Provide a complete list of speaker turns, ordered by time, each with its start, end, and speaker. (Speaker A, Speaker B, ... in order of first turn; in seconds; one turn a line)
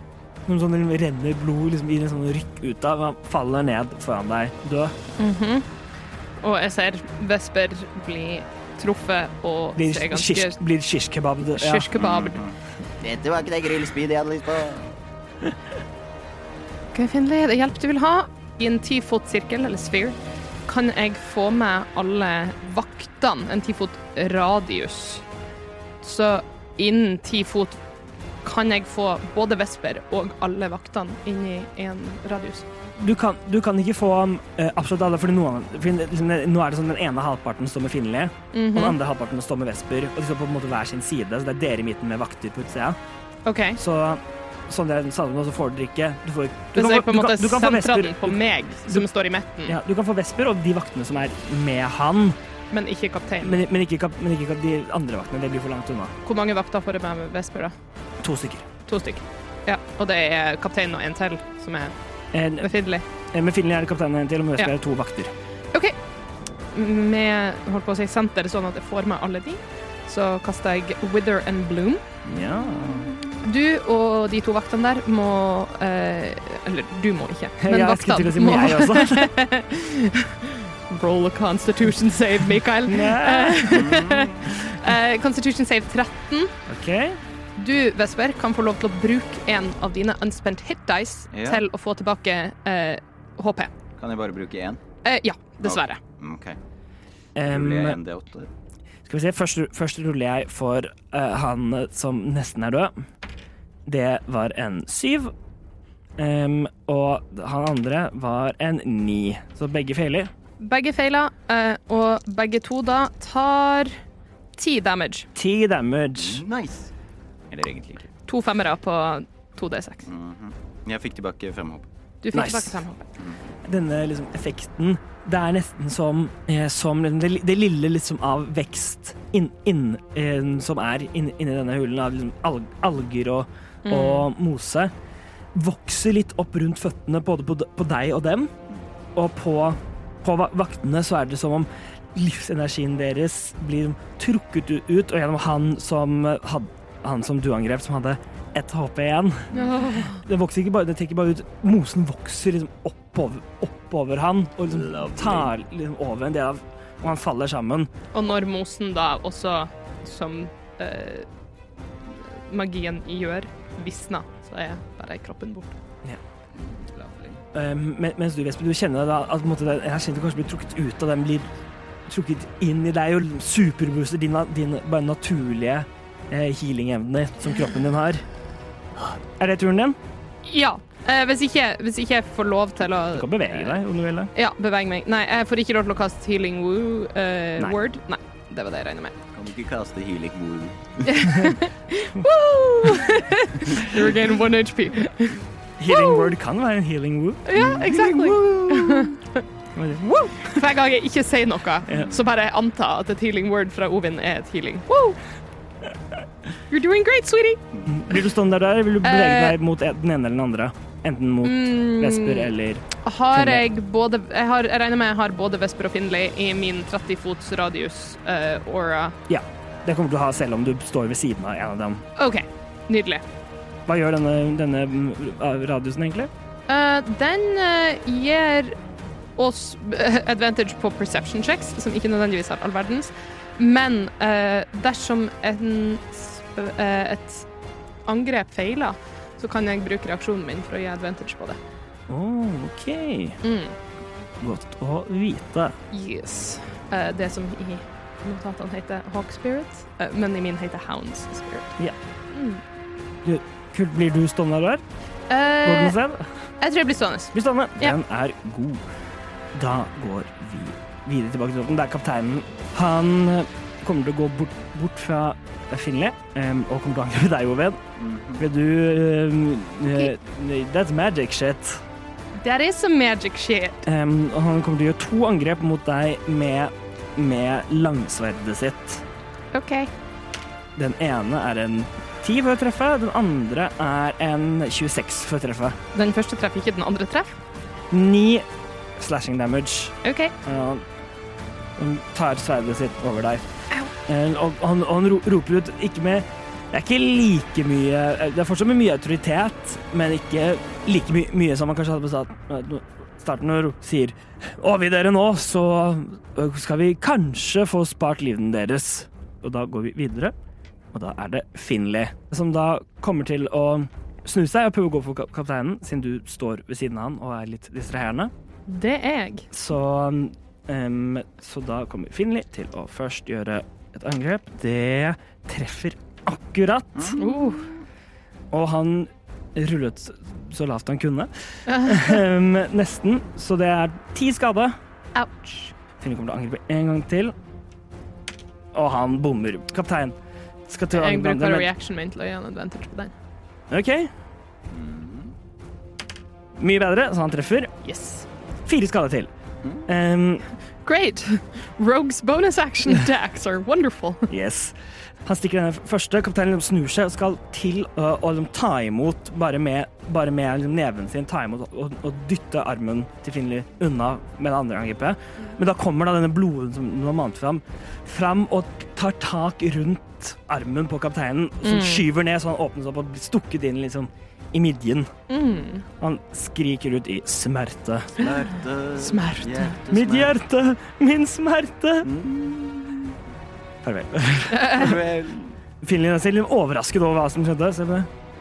Speaker A: 0.5-5.0
Speaker B: 5.2-5.7
Speaker B: 6.4-10.6
Speaker A: 9.8-11.9
Speaker B: 11.5-12.4
Speaker C: 11.9-14.9
Speaker B: 16.9-20.2
Speaker B: 20.7-25.2
Speaker B: 26.0-27.8
Speaker B: 28.4-32.7
Speaker A: 33.0-43.0
Speaker B: 38.5-39.0
Speaker B: 43.5-43.8
Speaker A: 43.8-49.1
Speaker B: 46.8-49.8
Speaker A: 49.7-52.4
Speaker B: 52.7-53.6
Speaker A: 53.4-56.1
Speaker B: 56.2-57.7
Speaker A: 58.2-58.7
Speaker B: 58.9-61.9
Speaker A: 62.3-62.7
Speaker B: 62.6-63.0
Speaker A: 63.3-65.3
Speaker B: 66.7-72.0
Speaker A: 72.2-73.1
Speaker B: 73.2-86.5
Speaker A: 77.6-79.3
Speaker A: 82.9-83.9
Speaker C: 83.7-84.5
Speaker A: 86.7-87.2
Speaker B: 87.6-93.7
Speaker C: 91.3-91.6
Speaker C: 94.0-94.8
Speaker B: 95.0-96.0
Speaker C: 95.6-96.6
Speaker A: 97.4-98.0
Speaker C: 97.5-98.5
Speaker A: 99.1-102.9
Speaker A: 103.9-105.3
Speaker A: 106.2-110.3
Speaker B: 110.6-114.0
Speaker B: 114.6-115.3
Speaker A: 115.3-116.4
Speaker C: 116.2-116.9
Speaker C: 117.5-118.1
Speaker B: 118.3-120.1
Speaker C: 120.0-121.9
Speaker B: 122.2-123.0
Speaker A: 122.3-122.8
Speaker A: 123.7-134.9
Speaker B: 133.9-134.3
Speaker A: 135.6-138.5
Speaker A: 139.2-149.5
Speaker C: 149.5-149.8
Speaker B: 149.6-150.2
Speaker A: 150.1-157.9
Speaker C: 154.7-155.5
Speaker B: 158.1-161.3
Speaker B: 162.1-165.8
Speaker C: 166.5-167.4
Speaker A: 167.5-171.5
Speaker A: 172.1-178.2
Speaker A: 179.4-180.0
Speaker B: 180.4-183.8
Speaker A: 183.1-184.3
Speaker B: 184.3-189.2
Speaker C: 189.3-191.1
Speaker B: 191.0-196.3
Speaker A: 191.3-191.6
Speaker A: 195.8-197.6
Speaker B: 197.5-199.4
Speaker C: 197.5-199.1
Speaker A: 199.8-200.5
Speaker B: 200.4-205.2
Speaker C: 201.9-202.2
Speaker B: 206.7-207.6
Speaker C: 207.7-208.0
Speaker A: 207.9-213.7
Speaker B: 209.0-209.6
Speaker B: 211.4-212.5
Speaker B: 213.0-219.2
Speaker A: 219.3-222.1
Speaker B: 222.2-223.2
Speaker A: 223.9-226.3
Speaker B: 226.7-228.8
Speaker B: 229.4-237.5
Speaker B: 238.1-241.6
Speaker A: 242.1-243.4
Speaker B: 243.4-243.8
Speaker A: 244.4-245.8
Speaker B: 245.9-251.7
Speaker B: 252.3-252.6
Speaker A: 253.2-254.8
Speaker B: 255.3-256.0
Speaker A: 255.6-256.2
Speaker B: 256.6-258.0
Speaker A: 257.3-258.8
Speaker A: 259.6-267.8
Speaker C: 268.0-268.5
Speaker A: 268.4-271.8
Speaker B: 272.4-273.8
Speaker A: 273.9-279.0
Speaker B: 279.5-279.9
Speaker A: 280.8-285.8
Speaker B: 285.9-287.3
Speaker A: 287.9-288.5
Speaker A: 289.0-290.9
Speaker B: 290.0-290.3
Speaker A: 291.8-293.4
Speaker A: 294.1-310.3
Speaker A: 310.9-318.3
Speaker B: 318.7-319.5
Speaker A: 319.5-327.2
Speaker C: 327.0-327.3
Speaker B: 327.2-327.7
Speaker A: 328.5-334.8
Speaker B: 331.7-332.2
Speaker B: 335.1-335.7
Speaker A: 336.0-337.3
Speaker A: 338.7-340.2
Speaker A: 340.7-341.7
Speaker B: 340.9-343.1
Speaker A: 343.7-344.1
Speaker C: 344.7-345.3
Speaker A: 346.6-347.7
Speaker B: 347.8-348.3
Speaker A: 348.6-349.3
Speaker A: 349.9-350.5
Speaker B: 350.9-354.3
Speaker A: 354.3-375.1
Speaker B: 371.6-372.1
Speaker B: 375.3-375.9
Speaker A: 376.0-378.2
Speaker C: 378.2-380.4
Speaker B: 379.0-379.8
Speaker A: 379.9-382.1
Speaker C: 382.0-383.1
Speaker A: 383.8-385.0
Speaker B: 384.6-384.9
Speaker C: 384.7-385.6
Speaker A: 385.8-388.1